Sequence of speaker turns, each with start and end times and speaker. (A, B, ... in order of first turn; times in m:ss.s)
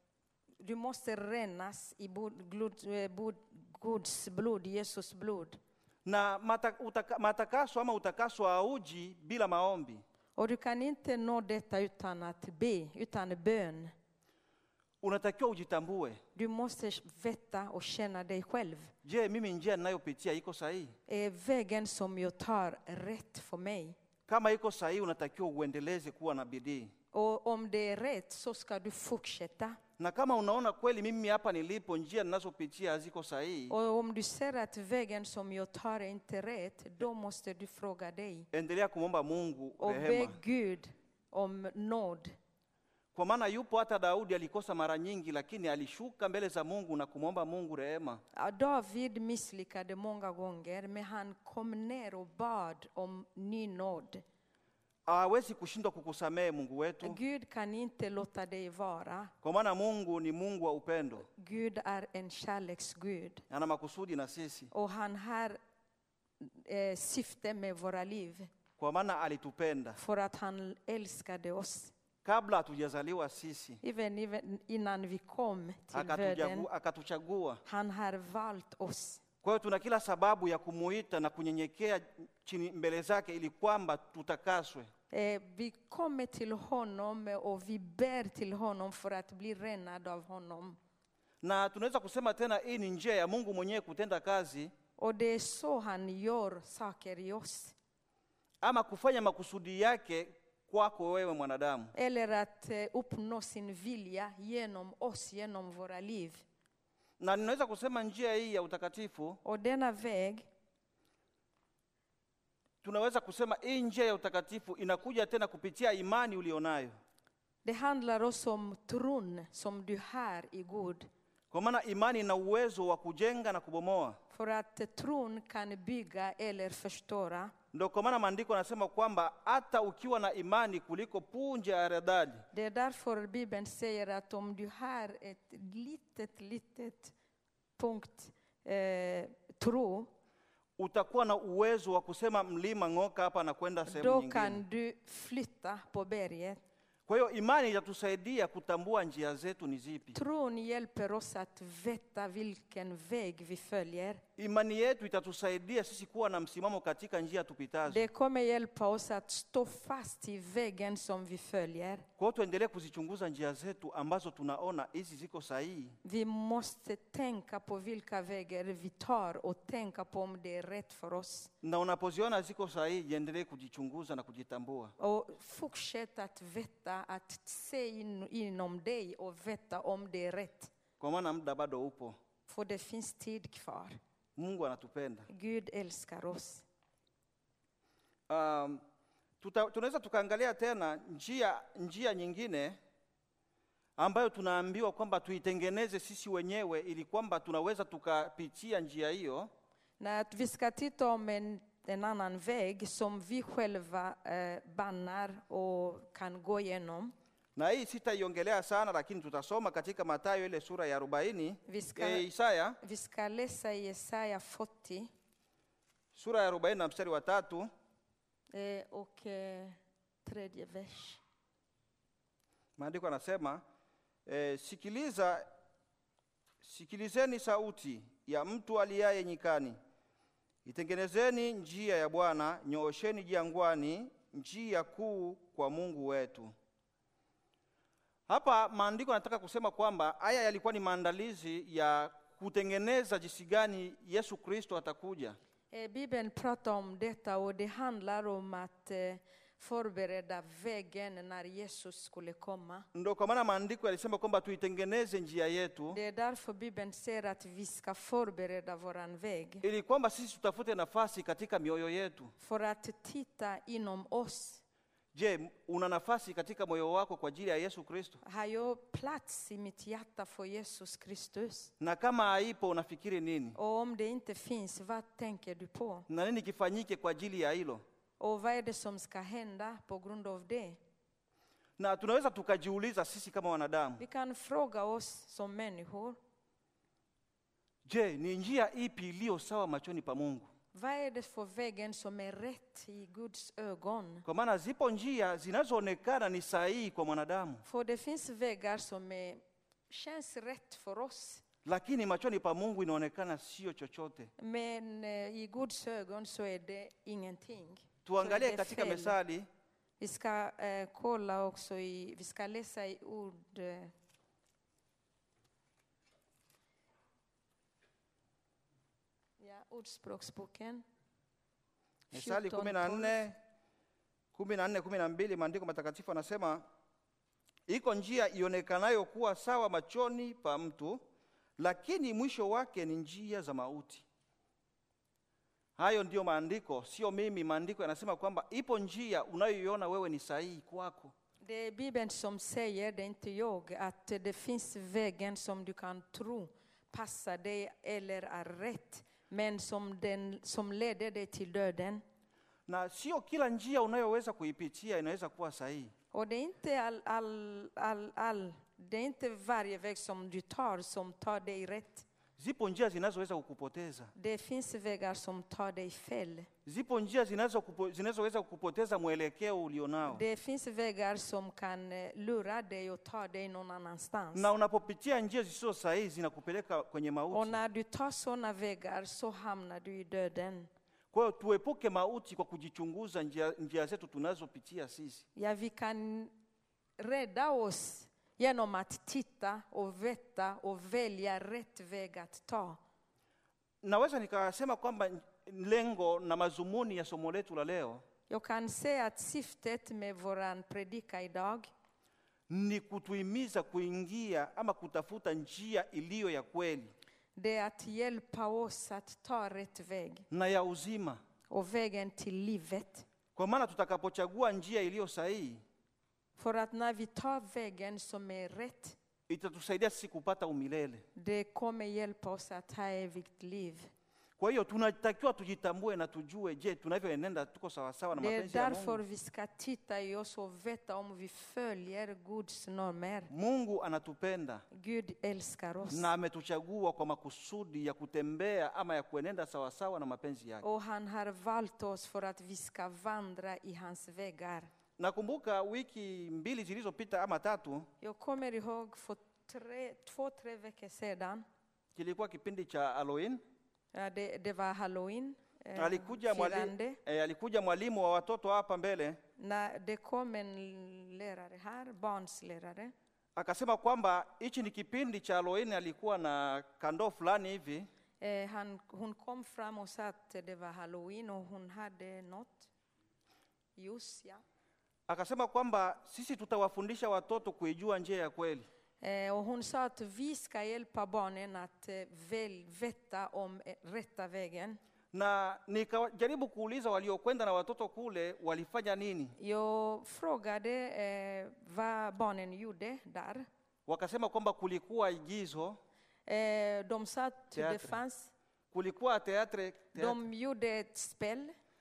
0:00.6-0:05.6 A
0:06.0-0:10.0 B
0:10.4-0:13.9 A
0:15.0-0:16.2 B
0:16.4-0:18.9 A
0:19.0-0:21.0 B
0:21.1-0:24.0 A
0:24.3-0:26.9 B
0:27.1-0:29.8 A
0:30.0-0:33.8 B
0:33.7-0:38.5 A
0:38.5-0:40.4 B
0:39.8-0:42.4 A
0:43.2-0:48.2 B
0:48.3-0:54.2 A
0:55.1-0:57.2 B
0:57.0-0:59.3 A
0:59.4-1:01.3 B
1:01.3-1:03.4 A
1:03.5-1:04.7 B
1:04.7-1:05.6 A
1:06.4-1:08.5 A
1:08.8-1:10.0 B
1:10.0-1:11.9 A
1:12.2-1:13.8 B
1:13.8-1:16.7 A
1:15.9-1:17.6 B
1:17.6-1:19.2 A
1:19.4-1:24.9 B
1:25.1-1:30.8 A
1:31.4-1:34.7 B
1:35.0-1:37.8 A
1:38.6-1:41.9 B
1:41.9-1:46.4 A
1:47.2-1:49.4 B
1:49.4-1:50.5 A
1:52.8-1:56.9 B
1:57.6-2:01.1 A
2:01.5-2:04.2 B
2:04.3-2:07.5 A
2:07.7-2:12.4 B
2:12.5-2:17.1 A
2:17.8-2:20.1 A
2:20.8-2:24.6 B
2:23.9-2:26.6 A
2:27.1-2:30.2 B
2:30.2-2:34.2 A
2:34.4-2:38.1 B
2:37.9-2:42.1 A
2:42.2-2:46.0 B
2:46.0-2:51.5 A
2:51.6-2:54.9 B
2:55.0-3:00.7 A
3:01.0-3:02.2 B
3:02.5-3:04.0 A
3:04.4-3:05.3 B
3:05.3-3:06.6 A
3:08.3-3:08.8 B
3:09.4-3:12.8 B
3:14.0-3:19.5 B
3:20.0-3:27.1 A
3:27.6-3:32.8 B
3:31.7-3:32.3 A
3:32.8-3:35.1 A
3:36.1-3:37.7 B
3:38.5-3:41.2 A
3:42.8-3:43.6 B
3:44.3-3:45.5 B
3:46.6-3:49.8 B
3:50.6-3:56.5 B
3:58.3-4:05.4 B
4:05.7-4:12.9 A
4:12.9-4:16.0 B
4:15.9-4:19.6 A
4:19.6-4:22.3 B
4:22.4-4:24.6 A
4:25.1-4:28.2 B
4:28.2-4:31.7 A
4:31.8-4:33.6 B
4:33.6-4:36.1 A
4:36.1-4:37.8 B
4:38.2-4:40.8 A
4:41.8-4:44.0 B
4:44.0-4:46.2 A
4:47.9-4:50.5 B
4:50.7-4:54.2 A
4:54.2-4:57.6 B
4:57.6-5:01.4 A
5:01.6-5:04.3 B
5:04.4-5:09.2 A
5:08.0-5:09.5 B
5:10.0-5:13.9 A
5:19.4-5:20.8 A
5:22.1-5:23.2 A
5:22.1-5:23.4 B
5:24.3-5:26.6 B
5:27.7-5:31.0 B
5:31.6-5:34.0 B
5:35.8-5:41.1 B
5:41.4-5:52.0 A
5:52.7-5:55.9 B
5:56.1-6:02.0 A
6:02.4-6:04.1 B
6:04.2-6:06.5 A
6:06.7-6:10.2 B
6:10.0-6:14.5 A
6:14.3-6:17.6 B
6:17.3-6:20.7 A
6:21.1-6:25.3 B
6:25.4-6:26.3 A
6:27.0-6:32.8 A
6:33.8-6:38.0 B
6:38.3-6:41.7 A
6:42.5-6:46.9 B
6:47.4-6:50.3 A
6:50.3-6:51.2 B
6:51.5-6:53.1 A
6:53.4-6:55.6 B
6:56.4-6:59.0 A
6:59.3-7:01.0 B
7:01.2-7:03.9 A
7:04.4-7:09.0 B
7:08.2-7:13.3 A
7:13.3-7:14.6 B
7:14.7-7:16.1 A
7:15.9-7:20.6 B
7:20.6-7:24.7 A
7:25.0-7:27.9 B
7:28.0-7:31.4 A
7:32.0-7:33.4 B
7:33.9-7:37.0 A
7:35.8-7:39.2 B
7:39.4-7:42.9 A
7:43.4-7:47.9 B
7:48.2-7:52.7 A
7:53.8-7:54.4 A
7:55.1-7:58.7 B
7:59.0-8:04.8 A
8:05.1-8:09.4 B
8:09.4-8:13.5 A
8:13.9-8:15.8 B
8:16.3-8:18.3 A
8:17.6-8:18.0 B
8:18.7-8:20.2 B
8:20.0-8:21.6 A